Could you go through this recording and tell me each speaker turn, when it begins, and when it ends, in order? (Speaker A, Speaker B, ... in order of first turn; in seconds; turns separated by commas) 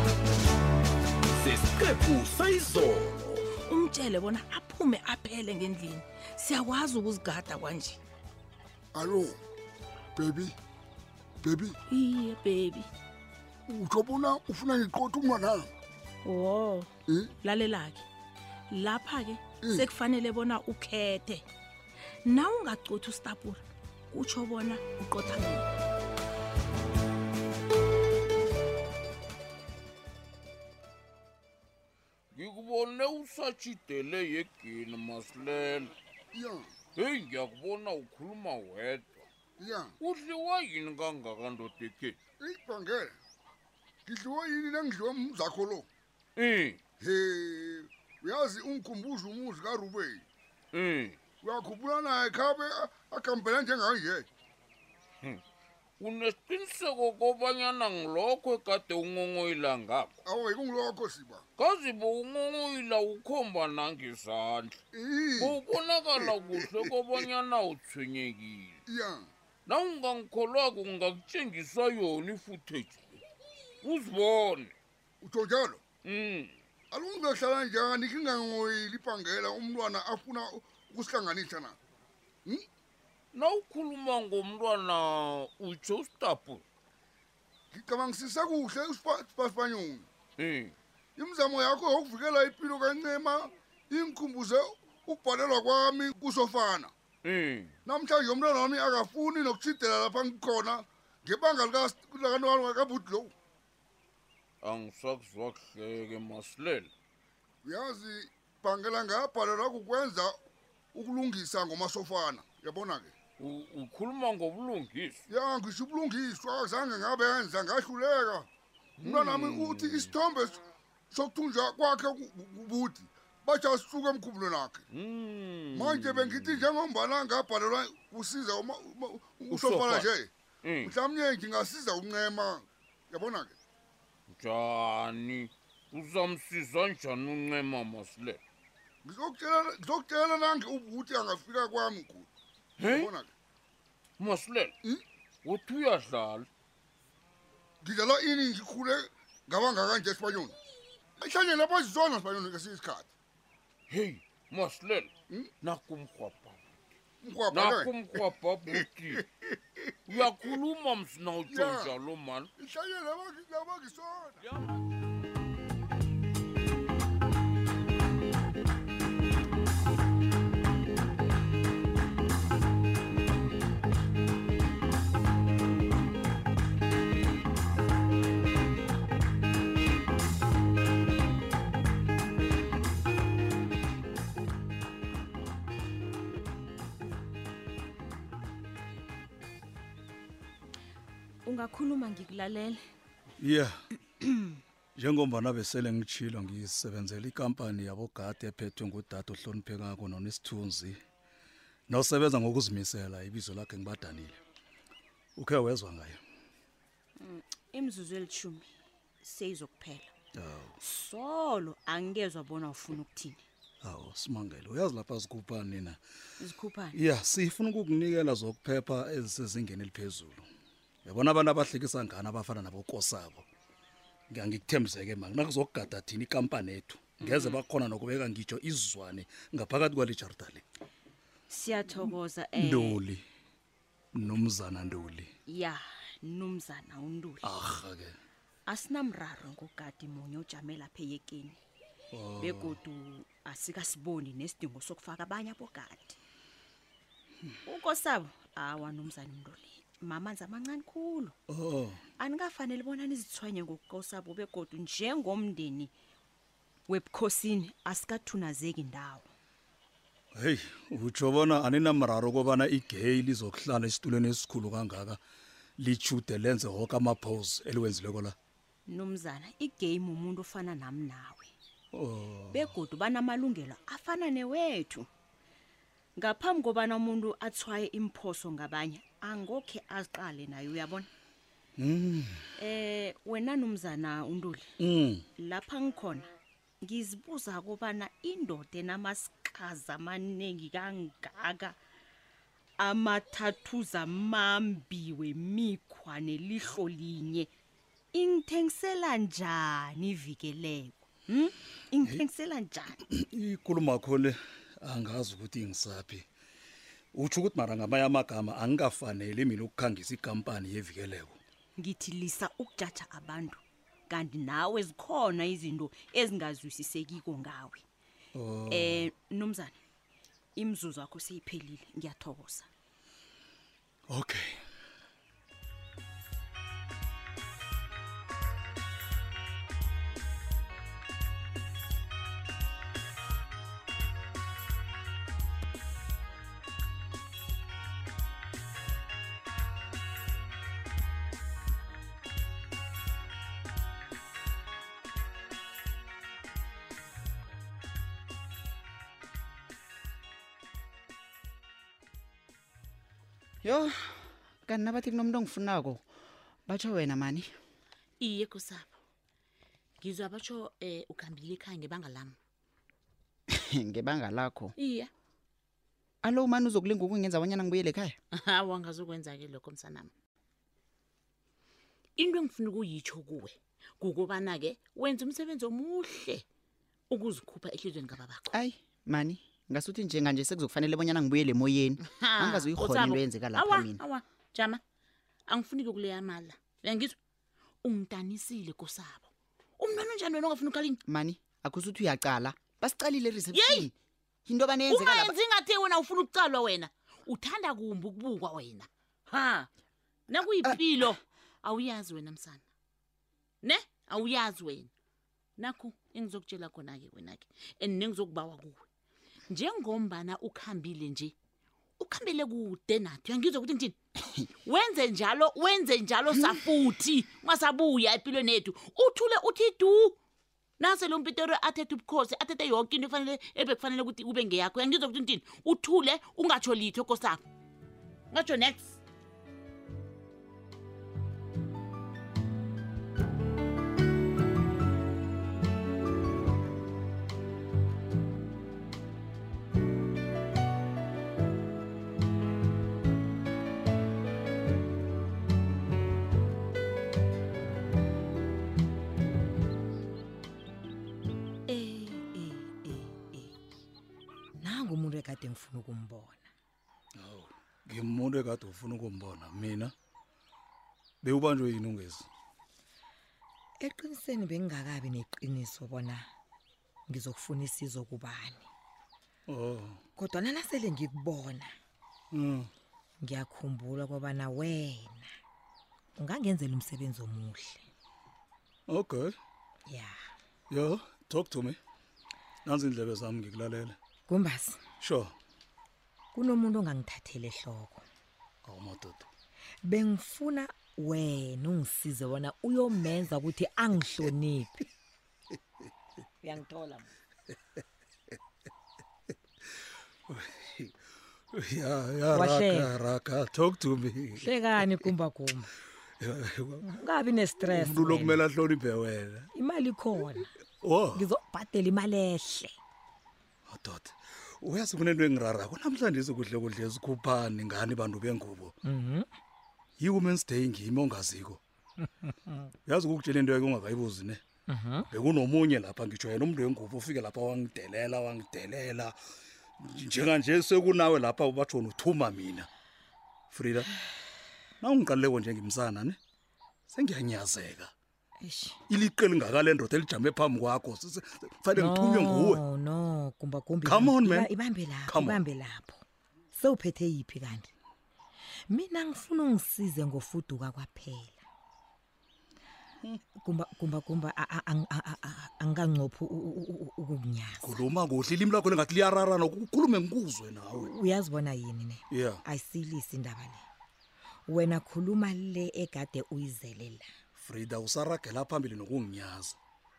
Speaker A: 1.4-3.5, Speaker B: 3.6-8.0, Speaker C: 8.9-9.4, Speaker C: 10.2-10.6, Speaker C: 11.4-11.8, Speaker B: 11.9-12.9, Speaker C: 13.7-15.7, Speaker B: 16.2-16.9, Speaker B: 17.4-18.1, Speaker B: 18.7-21.4, Speaker C: 19.6-19.9, Speaker B: 22.3-25.7, Speaker D: 32.3-35.9, Speaker C: 36.3-36.6, Speaker D: 37.0-39.2, Speaker C: 39.6-40.0, Speaker D: 40.0-42.2, Speaker C: 42.4-43.2, Speaker C: 44.1-45.9, Speaker D: 46.4-46.8, Speaker C: 47.0-50.2, Speaker D: 50.7-51.2, Speaker C: 51.4-54.3, Speaker D: 56.0-60.1, Speaker C: 60.2-61.5, Speaker D: 61.6-64.8, Speaker C: 64.9-67.2, Speaker D: 65.4-68.8, Speaker C: 68.9-69.3, Speaker D: 69.7-73.0, Speaker D: 73.8-74.7, Speaker C: 75.2-75.8, Speaker D: 76.0-76.5, Speaker C: 76.9-81.8, Speaker D: 83.3-86.6, Speaker C: 87.7-90.1, Speaker D: 90.4-90.8, Speaker C: 91.2-96.9, Speaker D: 97.2-97.8, Speaker C: 97.9-103.3, Speaker D: 104.6-106.9, Speaker C: 107.6-110.3, Speaker C: 110.9-113.1, Speaker D: 113.4-115.2, Speaker C: 115.3-118.5, Speaker D: 119.0-120.2, Speaker C: 119.0-124.8, Speaker D: 124.9-126.7, Speaker C: 125.7-130.3, Speaker D: 129.5-130.1, Speaker D: 130.6-131.0, Speaker C: 130.8-133.6, Speaker D: 134.3-138.4, Speaker C: 139.0-142.3, Speaker D: 142.8-143.1, Speaker C: 142.8-143.3, Speaker D: 144.2-144.8, Speaker D: 145.4-146.5, Speaker C: 147.8-150.6, Speaker C: 151.2-153.1, Speaker D: 153.9-155.1, Speaker D: 155.6-156.6, Speaker C: 157.2-158.8, Speaker D: 157.5-159.2, Speaker D: 160.1-162.5, Speaker C: 160.1-160.6, Speaker C: 161.5-162.0, Speaker C: 162.6-164.5, Speaker D: 164.4-164.8, Speaker E: 191.4-192.8, Speaker F: 193.4-193.7, Speaker F: 195.0-201.0, Speaker F: 201.9-204.4, Speaker F: 205.4-206.2, Speaker E: 207.2-210.2, Speaker F: 210.4-210.8, Speaker E: 210.8-213.4, Speaker F: 213.8-216.0, Speaker E: 216.4-217.0, Speaker F: 216.9-220.5, Speaker F: 221.1-223.5, Speaker F: 224.3-230.6, Speaker E: 227.2-227.6, Speaker E: 231.5-233.0, Speaker F: 232.1-233.2, Speaker F: 234.2-235.3, Speaker E: 235.5-237.5, Speaker F: 237.4-238.2, Speaker E: 238.7-241.6, Speaker F: 242.1-242.8, Speaker E: 242.4-246.2, Speaker E: 247.7-251.4, Speaker F: 251.5-252.0, Speaker E: 252.2-255.9, Speaker E: 256.9-259.3, Speaker F: 260.4-265.2, Speaker F: 265.8-268.4, Speaker E: 268.9-271.5, Speaker F: 271.9-272.7, Speaker E: 272.5-275.1, Speaker E: 276.2-281.1, Speaker F: 281.8-282.5, Speaker E: 282.6-284.7, Speaker F: 284.8-285.2, Speaker E: 285.4-286.3, Speaker E: 286.8-291.8, Speaker E: 292.8-297.5, Speaker E: 298.1-303.0, Speaker F: 303.1-306.3, Speaker F: 307.1-311.4, Speaker E: 311.8-317.9, Speaker F: 318.4-319.1, Speaker E: 318.7-319.8, Speaker E: 320.6-322.7, Speaker F: 324.1-324.6, Speaker G: 353.6-356.1, Speaker G: 356.7-357.5, Speaker H: 358.2-358.9, Speaker H: 360.0-362.4, Speaker G: 363.6-364.7, Speaker H: 364.8-365.1, Speaker G: 366.2-368.2, Speaker H: 368.3-370.1, Speaker H: 372.2-376.4, Speaker H: 377.1-378.5, Speaker G: 378.5-384.0, Speaker H: 382.1-384.8, Speaker H: 385.5-387.2, Speaker H: 387.8-391.0, Speaker G: 391.1-393.9, Speaker H: 393.5-393.9, Speaker G: 394.4-395.4, Speaker H: 394.9-399.7, Speaker H: 400.3-402.6, Speaker H: 403.6-404.9, Speaker H: 405.6-408.9, Speaker H: 409.5-411.3, Speaker H: 412.0-414.0, Speaker H: 414.6-420.2, Speaker H: 420.8-427.4, Speaker H: 428.3-429.0, Speaker I: 451.7-453.5, Speaker I: 454.6-456.5, Speaker F: 457.2-459.9, Speaker F: 461.2-462.3, Speaker I: 463.8-466.2, Speaker I: 467.1-468.7, Speaker F: 469.5-470.0, Speaker I: 470.2-471.7, Speaker F: 472.3-472.7, Speaker I: 473.2-475.3, Speaker I: 476.2-477.8, Speaker F: 478.9-479.4, Speaker I: 479.9-480.1, Speaker F: 480.7-481.8, Speaker F: 482.7-484.0, Speaker I: 484.3-484.8, Speaker F: 485.0-485.3, Speaker I: 486.3-488.1, Speaker F: 488.6-489.3, Speaker I: 489.9-494.9, Speaker I: 496.4-497.1, Speaker F: 500.3-500.9, Speaker F: 501.5-504.5, Speaker I: 502.3-502.9, Speaker I: 504.4-505.7, Speaker F: 506.2-506.9, Speaker I: 506.8-508.4, Speaker F: 507.7-509.5, Speaker I: 509.6-510.5, Speaker F: 510.8-511.3, Speaker I: 511.1-512.7, Speaker F: 513.7-518.8, Speaker I: 518.8-519.3, Speaker F: 520.0-521.6, Speaker F: 522.9-524.4, Speaker I: 524.7-525.1, Speaker F: 525.1-529.2, Speaker F: 529.8-532.7, Speaker F: 533.5-533.9, Speaker F: 534.8-536.2, Speaker F: 536.9-537.9, Speaker I: 538.4-538.8, Speaker F: 538.9-542.6, Speaker I: 541.8-546.0, Speaker F: 543.8-544.5, Speaker F: 545.0-545.4, Speaker I: 546.5-547.7, Speaker I: 548.7-551.4, Speaker I: 553.4-557.8, Speaker F: 557.6-560.9, Speaker I: 560.8-563.6, Speaker F: 562.1-562.4, Speaker I: 564.5-567.1, Speaker F: 567.4-569.6